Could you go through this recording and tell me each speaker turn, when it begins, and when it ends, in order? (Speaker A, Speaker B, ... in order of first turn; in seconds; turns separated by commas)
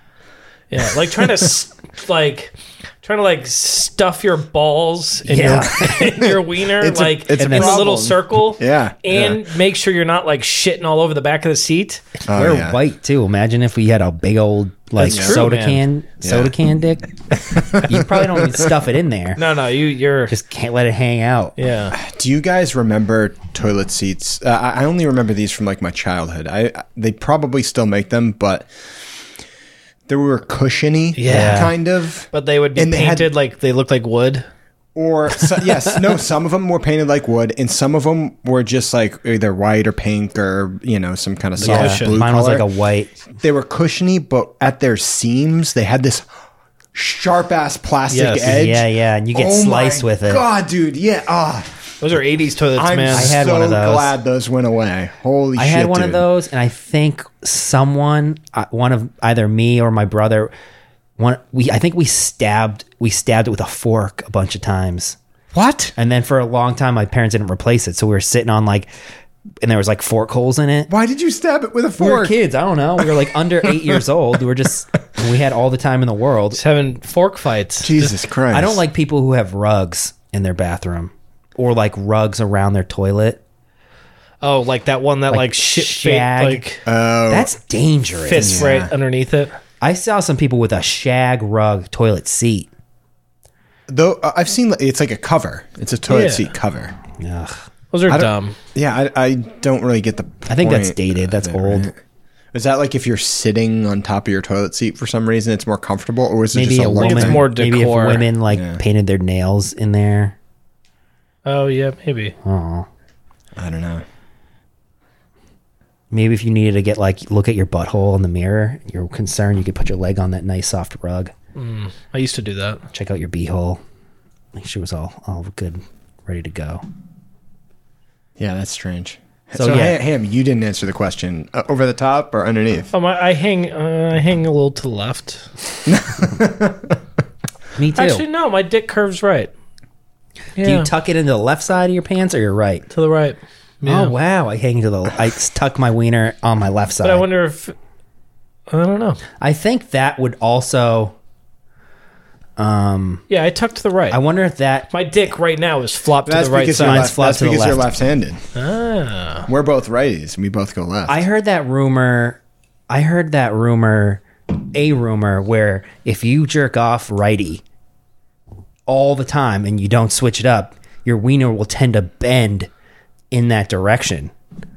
Speaker A: 0.7-12.0, Speaker B: 5.3-6.0, Speaker C: 5.9-9.4, Speaker B: 7.4-7.9, Speaker B: 12.3-17.1, Speaker C: 12.3-12.8, Speaker A: 15.0-15.8, Speaker C: 15.0-15.5, Speaker C: 16.2-16.5, Speaker C: 17.3-18.7, Speaker B: 17.7-19.4, Speaker A: 19.4-20.3, Speaker B: 20.3-21.5, Speaker A: 21.6-21.9, Speaker C: 21.9-28.7, Speaker C: 30.1-33.3, Speaker A: 31.1-31.8, Speaker B: 31.3-31.7, Speaker A: 32.3-34.4, Speaker C: 34.9-42.7, Speaker A: 41.6-42.2, Speaker B: 41.6-43.1, Speaker C: 43.3-46.3, Speaker C: 46.9-52.0, Speaker A: 48.1-48.6, Speaker B: 48.5-50.4, Speaker A: 52.0-53.4, Speaker C: 52.8-56.2, Speaker B: 53.1-54.1, Speaker B: 55.5-60.5, Speaker B: 61.2-65.2, Speaker C: 65.5-65.9, Speaker B: 66.0-68.9, Speaker B: 69.6-70.9, Speaker C: 70.9-72.3, Speaker B: 72.0-76.6, Speaker C: 73.6-74.0, Speaker A: 76.5-78.1, Speaker C: 77.8-78.8, Speaker B: 78.5-83.4, Speaker A: 84.4-86.8, Speaker B: 85.3-86.6, Speaker C: 86.8-87.5, Speaker B: 87.3-88.7, Speaker A: 88.2-89.6, Speaker C: 88.3-88.9, Speaker B: 89.8-92.7, Speaker C: 93.9-97.0, Speaker A: 96.1-96.5, Speaker B: 97.2-97.6, Speaker A: 97.9-98.5, Speaker C: 98.1-102.0, Speaker B: 100.5-101.9, Speaker C: 102.5-107.4, Speaker B: 106.5-110.3, Speaker A: 107.0-108.3, Speaker C: 108.5-108.8, Speaker A: 111.4-112.3, Speaker B: 112.4-112.9, Speaker C: 113.5-114.0, Speaker B: 116.1-121.3, Speaker A: 121.5-122.8, Speaker B: 122.9-123.8, Speaker B: 124.5-126.8, Speaker C: 128.4-132.9, Speaker B: 129.5-130.0, Speaker A: 132.9-135.5, Speaker C: 135.8-137.0, Speaker B: 137.8-138.2, Speaker A: 138.0-139.5, Speaker A: 140.6-140.9, Speaker B: 140.6-142.8, Speaker A: 142.9-144.2, Speaker B: 143.8-147.2, Speaker A: 147.0-147.7, Speaker A: 148.7-149.2, Speaker B: 149.4-151.1, Speaker B: 152.6-153.2, Speaker A: 153.3-154.2, Speaker B: 154.1-154.9, Speaker A: 154.9-157.1, Speaker C: 156.2-158.4, Speaker B: 156.7-157.9, Speaker A: 158.5-159.5, Speaker C: 159.5-161.2, Speaker B: 161.1-162.4, Speaker B: 162.9-167.6, Speaker B: 168.9-172.7, Speaker B: 173.3-174.3